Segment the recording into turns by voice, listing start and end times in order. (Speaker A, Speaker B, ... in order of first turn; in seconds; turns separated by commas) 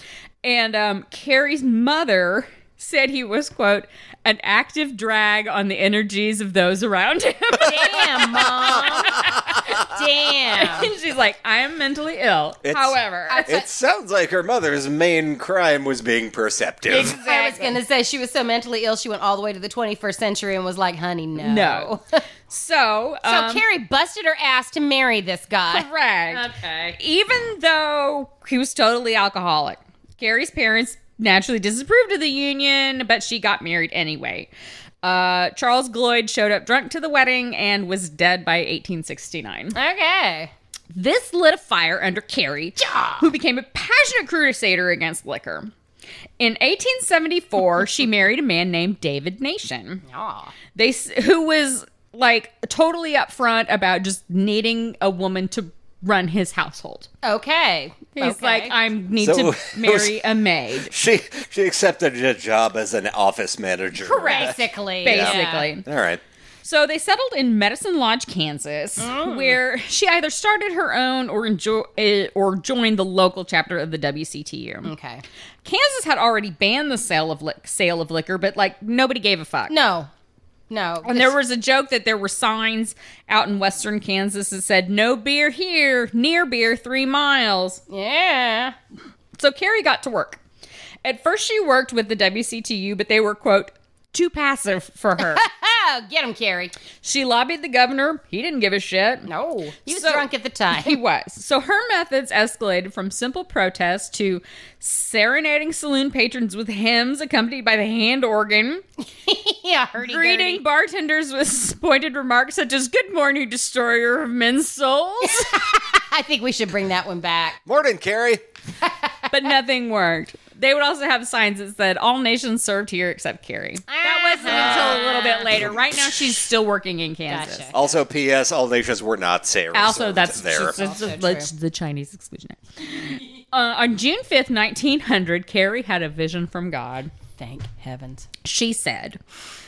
Speaker A: 0.4-9.8, Speaker B: 7.6-10.9, Speaker C: 9.0-9.6, Speaker A: 10.5-13.4, Speaker C: 12.6-17.2, Speaker B: 13.3-13.7, Speaker B: 16.9-22.2, Speaker A: 16.9-17.8, Speaker A: 21.4-21.9, Speaker A: 22.5-23.6, Speaker B: 23.2-27.0, Speaker A: 25.7-34.5, Speaker A: 35.0-39.8, Speaker B: 39.7-40.5, Speaker A: 40.9-45.7, Speaker B: 42.8-43.3, Speaker A: 46.4-50.0, Speaker B: 50.0-50.5, Speaker A: 50.7-57.1, Speaker B: 57.2-58.8, Speaker A: 58.2-60.9, Speaker C: 59.2-60.2, Speaker C: 60.9-66.2, Speaker A: 64.0-65.8, Speaker B: 64.1-65.7, Speaker A: 66.6-74.9, Speaker B: 69.0-69.6, Speaker B: 74.8-75.2, Speaker A: 75.6-79.7, Speaker B: 79.7-80.1, Speaker B: 80.7-81.3, Speaker A: 81.0-87.8, Speaker B: 87.9-88.8, Speaker A: 89.3-90.4, Speaker A: 91.0-95.4, Speaker B: 95.2-96.7, Speaker A: 97.0-99.3, Speaker B: 99.3-101.0, Speaker A: 99.9-108.8, Speaker B: 109.2-110.6, Speaker A: 110.0-115.5, Speaker B: 115.2-117.6, Speaker C: 117.7-118.4, Speaker B: 118.8-119.5, Speaker A: 119.3-127.7, Speaker B: 123.9-125.6, Speaker C: 124.5-125.0, Speaker B: 127.3-127.7, Speaker C: 127.7-130.8, Speaker A: 129.7-137.1, Speaker B: 130.7-131.5, Speaker B: 137.4-138.3, Speaker A: 138.4-139.2